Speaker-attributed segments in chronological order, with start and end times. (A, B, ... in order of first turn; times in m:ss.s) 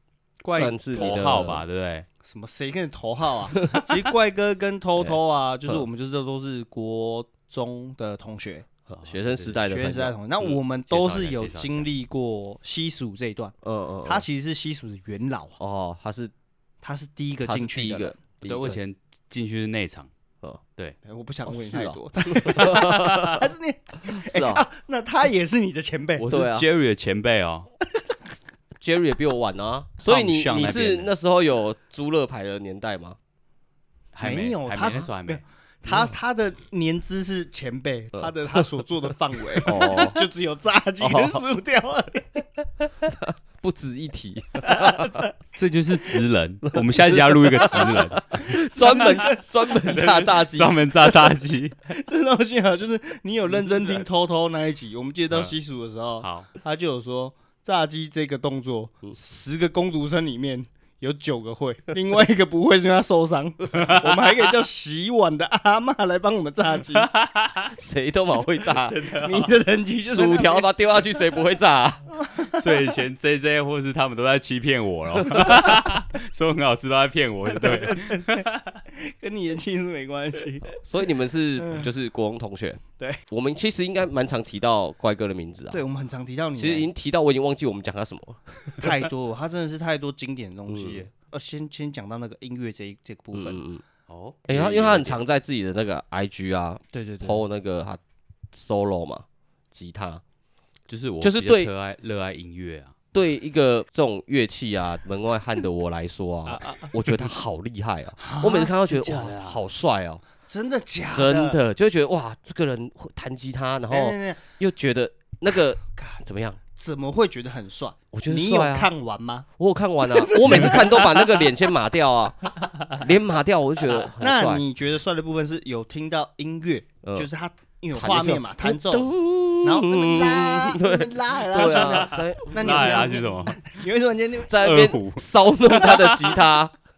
0:00.4-0:01.4 A
0:00.5-0:01.6 B
0:00.9-0:02.1 C
0:02.2-0:08.7 A
0:03.6-0:04.0 B
0:05.0-0:05.8 B
0:08.9-0:10.1 B
0:09.0-0:09.7 C
0:09.6-0:15.6 A
0:10.4-0:11.9 C
0:13.6-0:14.2 B
0:15.6-0:16.3 B
0:16.8-0:18.2 A
0:17.4-0:18.8 B
0:18.4-0:20.1 C
0:21.0-0:26.2 A
0:21.4-0:23.4 B
0:22.6-0:23.4 C
0:24.1-0:24.6 B
0:26.2-0:27.7 C
0:26.2-0:26.7 B
0:28.8-0:33.2 B
0:30.1-0:31.1 C
0:34.1-0:35.4 C
0:34.2-0:42.4 A
0:38.1-0:38.7 B
0:39.6-0:40.2 B
0:41.0-0:41.4 B
0:43.0-0:45.2 B
0:44.6-0:45.3 A
0:45.5-0:48.4 C
0:46.6-0:50.8 B
0:48.3-0:49.4 A
0:49.7-0:51.8 C
0:51.9-1:07.1 A
0:53.5-0:54.0 B
0:56.2-0:56.5 C
1:03.7-1:04.3 C
1:06.9-1:07.8 C
1:07.8-1:09.0 B
1:08.6-1:09.6 C
1:09.2-1:10.7 A
1:10.1-1:12.1 B
1:12.1-1:12.7 A
1:12.5-1:18.8 C
1:17.5-1:20.7 A
1:20.7-1:25.8 B
1:25.7-1:26.9 A
1:26.6-1:29.1 B
1:28.8-1:33.6 A
1:30.7-1:31.1 B
1:33.3-1:33.8 B
1:34.1-1:35.2 C
1:34.5-1:38.0 B
1:36.9-1:37.4 A
1:38.5-1:40.2 B
1:40.9-1:42.9 C
1:41.2-1:41.7 B
1:43.1-1:50.2 B
1:46.4-1:47.3 A
1:48.2-1:49.4 A
1:49.2-1:49.6 C
1:50.5-1:51.6 A
1:51.1-1:56.6 B
1:53.9-1:54.4 A
1:55.9-1:56.2 A
1:56.8-1:59.5 A
1:58.1-1:58.9 B
1:59.6-2:04.6 B
2:00.0-2:01.7 A
2:03.9-2:09.1 A
2:07.0-2:07.3 B
2:07.9-2:13.1 B
2:09.6-2:14.6 A
2:11.8-2:13.8 C
2:14.5-2:16.7 B
2:14.6-2:15.2 C
2:15.8-2:16.1 A